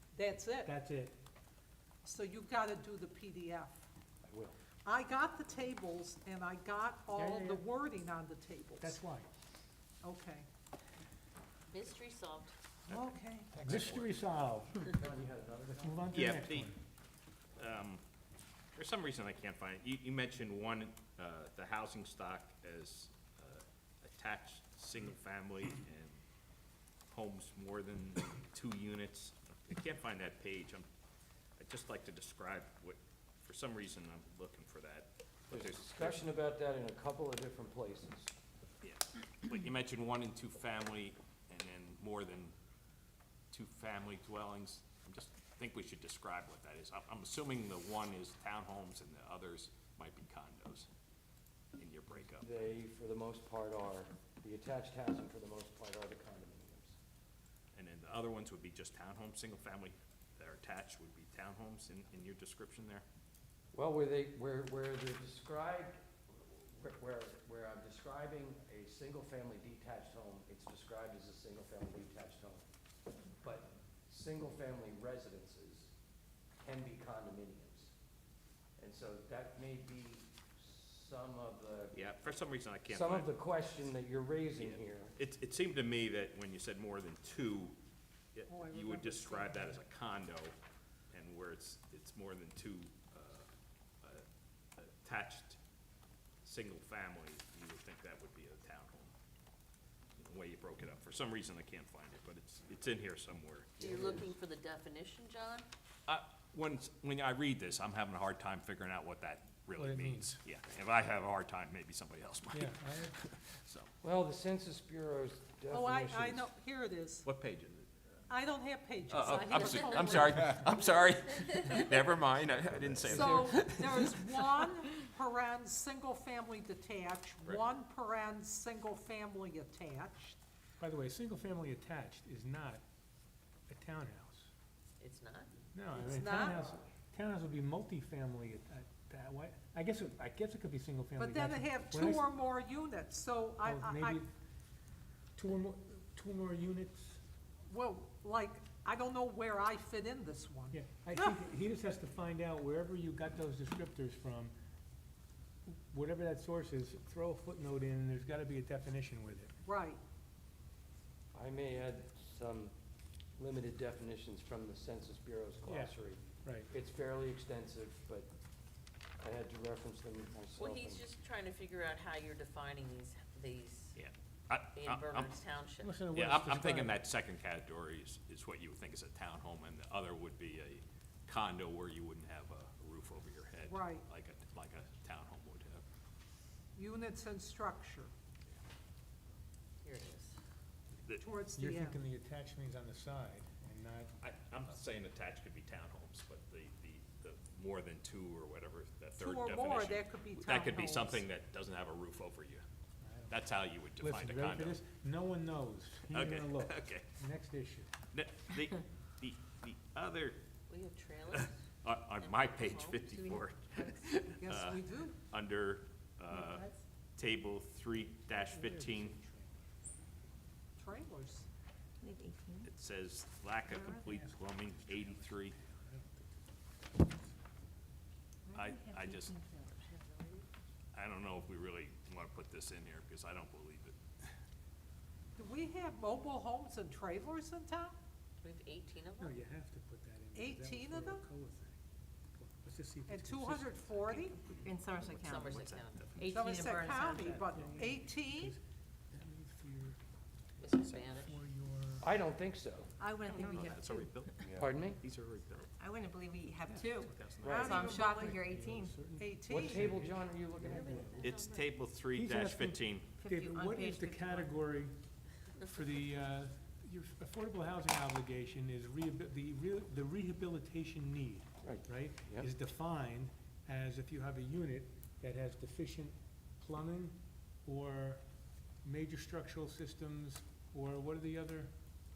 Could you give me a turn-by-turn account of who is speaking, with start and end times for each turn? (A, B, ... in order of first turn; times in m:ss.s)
0:00.1-0:00.7 A
0:00.6-0:01.2 B
0:02.0-0:03.8 A
0:04.2-0:04.6 C
0:04.8-0:09.0 A
0:07.1-0:07.6 B
0:08.8-0:09.3 B
0:10.0-0:10.5 A
0:11.7-0:12.5 D
0:12.9-0:13.5 A
0:13.5-0:14.9 B
0:13.6-0:14.0 E
0:14.8-0:16.1 C
0:15.8-0:16.8 B
0:16.1-0:16.7 E
0:17.6-0:18.0 E
0:18.8-0:26.2 E
0:27.1-0:30.9 E
0:31.6-0:36.2 E
0:35.5-0:38.3 C
0:38.8-0:42.5 E
0:43.5-0:50.9 E
0:51.8-0:52.5 E
0:52.4-0:57.0 C
0:57.7-1:03.0 E
1:03.7-1:12.7 C
1:13.4-1:15.9 C
1:16.6-1:17.9 C
1:18.8-1:22.0 C
1:21.9-1:23.3 E
1:22.9-1:25.2 C
1:24.6-1:27.8 E
1:28.4-1:30.6 E
1:28.5-1:29.7 A
1:31.1-1:33.5 E
1:34.8-1:35.6 E
1:36.4-1:39.1 E
1:40.2-1:43.9 E
1:43.8-1:44.3 C
1:43.8-1:45.6 D
1:46.1-1:53.9 E
1:49.8-1:50.4 B
1:52.5-1:53.2 B
1:54.0-1:56.5 C
1:55.7-1:57.3 A
1:57.2-1:57.9 E
1:58.3-2:00.6 A
1:59.1-2:04.9 E
1:59.6-2:00.3 D
2:03.0-2:03.6 C
2:03.1-2:10.4 A
2:10.8-2:12.8 B
2:13.7-2:14.5 B
2:15.0-2:15.5 D
2:15.7-2:22.3 B
2:15.9-2:16.8 A
2:21.2-2:24.2 A
2:23.6-2:24.3 B
2:25.4-2:27.2 B
2:27.7-2:31.5 A
2:30.7-2:34.5 B
2:35.7-2:39.5 B
2:39.6-2:40.0 A
2:41.3-2:42.7 C
2:43.4-2:48.3 C
2:45.6-2:46.7 B
2:49.2-2:51.1 C
2:50.6-2:54.0 D
2:54.0-2:55.4 E
2:54.8-2:56.0 D
2:55.8-2:57.0 B
2:56.1-3:05.8 E
3:03.7-3:04.0 A
3:06.8-3:08.1 A
3:09.8-3:10.4 D
3:11.2-3:12.0 A
3:11.6-3:14.1 B
3:14.2-3:22.6 E
3:19.2-3:21.2 A
3:23.0-3:23.4 B
3:23.3-3:24.8 E
3:24.0-3:27.9 B
3:26.1-3:27.1 E
3:28.1-3:30.4 E
3:30.7-3:31.6 D
3:31.3-3:39.2 E
3:32.2-3:33.1 D
3:33.1-3:34.1 F
3:34.4-3:35.2 A
3:36.3-3:36.8 F
3:38.2-3:39.6 B
3:40.8-3:41.5 A
3:42.0-3:42.7 F
3:42.6-3:45.6 E
3:43.7-3:44.0 F
3:44.0-3:47.3 B
3:48.5-3:49.9 F
3:48.5-3:49.4 E
3:49.9-3:50.5 D
3:50.9-3:54.3 E
3:55.4-3:58.0 A
3:58.4-3:59.4 D
3:59.2-4:01.8 B
4:00.3-4:01.2 A
4:02.4-4:04.2 B
4:03.1-4:04.4 A
4:04.4-4:06.3 E
4:04.6-4:07.9 F
4:05.2-4:06.1 D
4:06.3-4:08.6 A
4:07.4-4:10.0 B
4:10.6-4:11.3 D
4:10.7-4:11.2 E
4:10.7-4:12.1 B
4:12.0-4:12.9 C
4:13.0-4:14.2 F
4:13.5-4:15.7 E
4:14.6-4:15.0 C
4:15.6-4:19.0 F
4:16.6-4:17.1 B
4:17.1-4:17.8 E
4:17.4-4:17.8 C
4:17.7-4:18.3 A
4:17.8-4:21.3 B
4:19.2-4:19.8 A
4:19.5-4:21.2 C
4:20.7-4:21.8 D
4:21.2-4:23.1 E
4:22.1-4:24.9 B
4:23.2-4:24.6 F
4:25.6-4:38.2 B
4:31.6-4:32.5 C
4:38.8-4:41.7 B